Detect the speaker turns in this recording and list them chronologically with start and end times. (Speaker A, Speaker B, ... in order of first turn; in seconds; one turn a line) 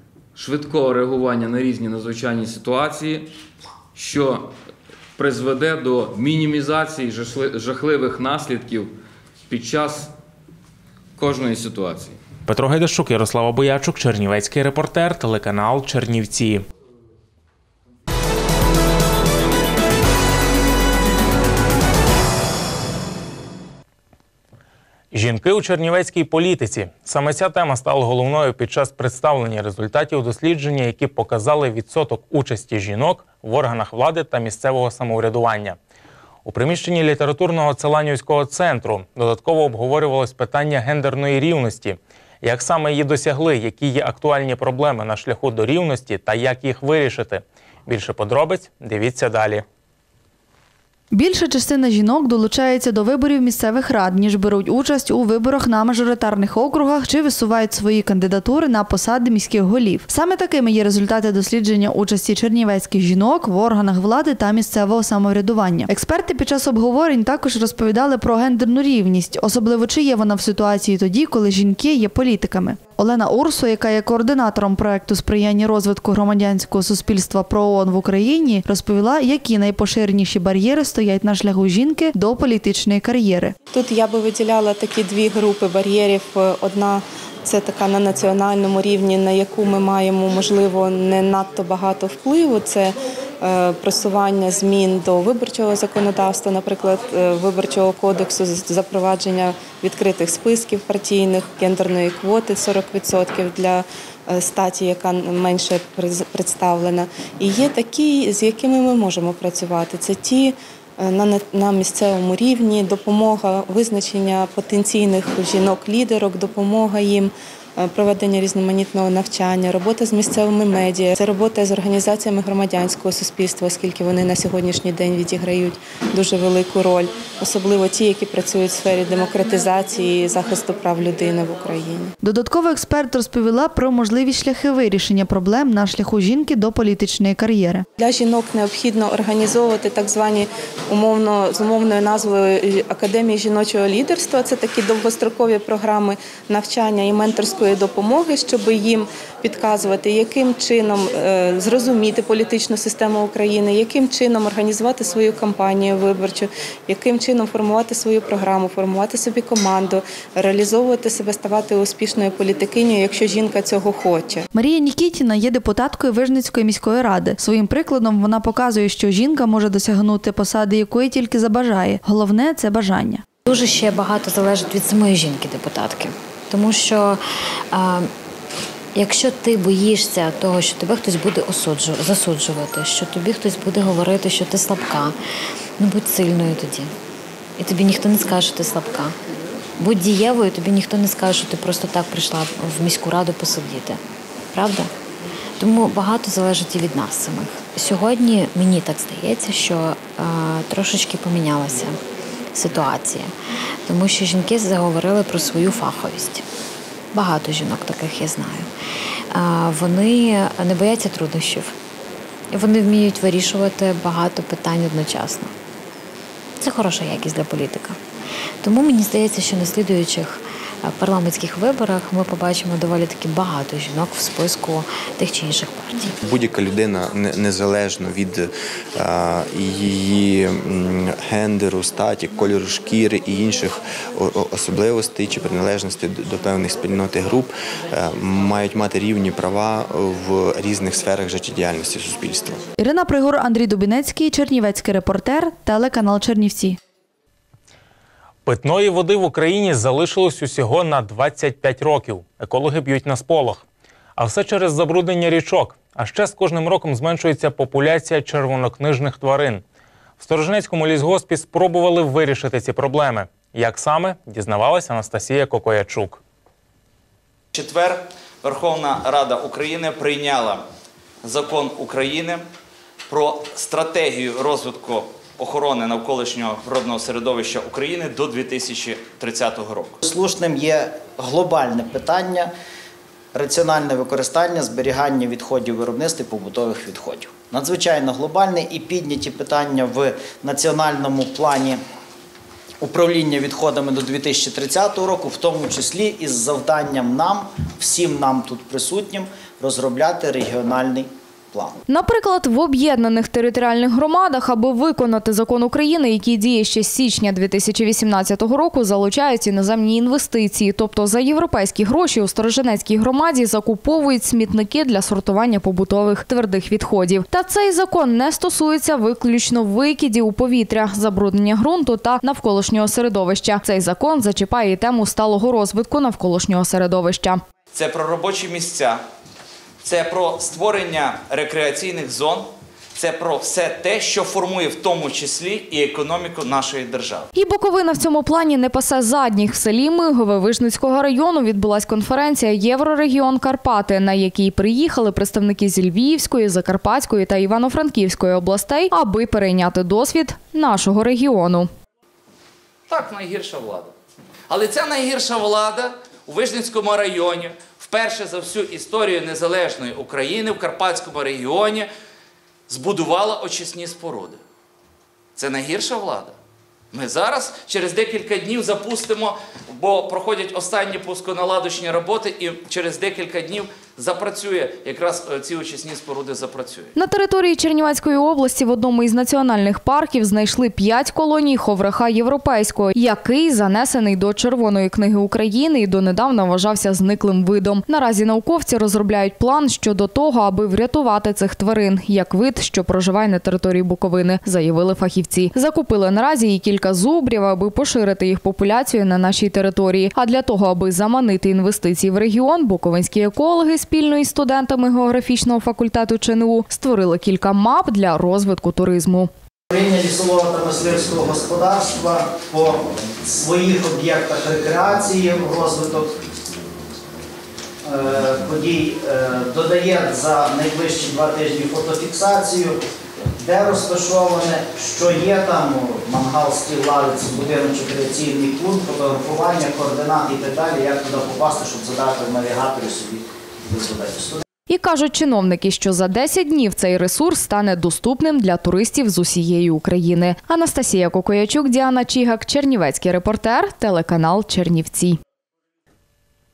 Speaker A: 0.3-3.3
Speaker A: 3.9-4.5
Speaker A: 5.2-8.9
Speaker A: 9.5-10.1
Speaker A: 11.2-12.2
Speaker B: 12.5-16.6
Speaker B: 25.1-35.8
Speaker B: 36.4-49.6
Speaker C: 51.1-83.5
Speaker D: 83.7-132.1
Speaker C: 132.2-137.8
Speaker D: 138.0-164.4
Speaker C: 164.5-173.2
Speaker E: 173.4-178.1
Speaker E: 178.9-185.2
Speaker E: 185.8-186.9
Speaker E: 187.6-189.1
Speaker E: 189.8-194.0
Speaker E: 194.5-194.9
Speaker E: 195.6-202.0
Speaker E: 202.5-203.3
Speaker E: 203.8-206.4
Speaker E: 207.1-208.7
Speaker E: 209.3-211.7
Speaker E: 212.5-215.5
Speaker E: 216.6-218.0
Speaker E: 218.6-226.1
Speaker F: 226.2-242.6
Speaker C: 242.8-246.8
Speaker B: 248.4-253.6
Speaker B: 254.2-259.6
Speaker B: 260.2-266.2
Speaker G: 267.5-270.6
Speaker G: 271.2-272.4
Speaker G: 273.1-279.9
Speaker H: 280.0-282.5
Speaker H: 283.3-291.8
Speaker H: 292.8-301.8
Speaker I: 301.9-327.4
Speaker G: 327.7-329.0
Speaker G: 329.8-337.3
Speaker I: 337.3-351.7
Speaker G: 352.9-353.9
Speaker G: 354.5-361.9
Speaker G: 362.7-364.4
Speaker G: 365.4-366.3
Speaker G: 366.9-376.9
Speaker I: 376.9-409.3
Speaker H: 409.7-416.1
Speaker H: 417.8-422.8
Speaker H: 423.4-434.4
Speaker I: 434.7-445.2